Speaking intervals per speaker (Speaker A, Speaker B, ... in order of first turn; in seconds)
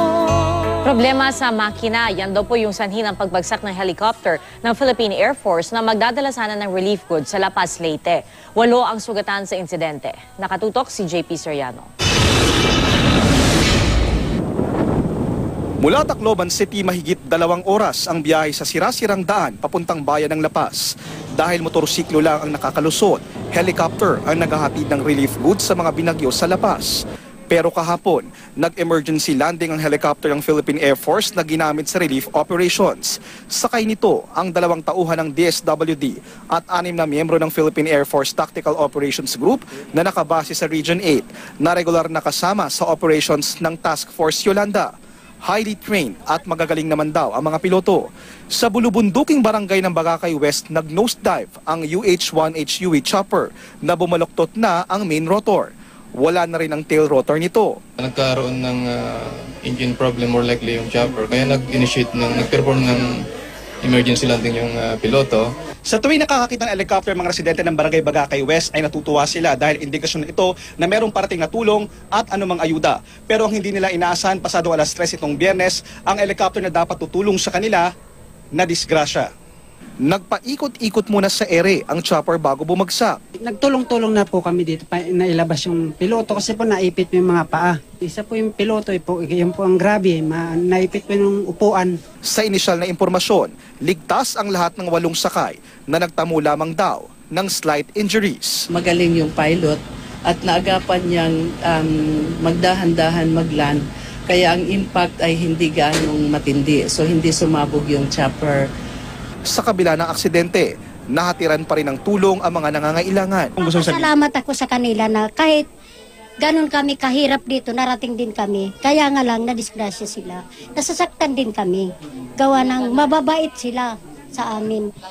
Speaker A: 0.8-11.9
Speaker B: 15.8-44.9, 45.4-57.8, 65.9-72.9, 73.6-75.7, 76.2-77.8, 78.7-79.2, 80.0-83.2, 92.3-98.6, 109.5-113.6
Speaker C: 58.0-63.1, 63.8-65.5
Speaker D: 66.1-69.7, 70.9-71.6, 72.2-72.9, 73.4-76.7
Speaker E: 83.4-91.9
Speaker F: 98.7-108.7
Speaker G: 113.6-115.6, 116.4-121.8, 122.4-124.9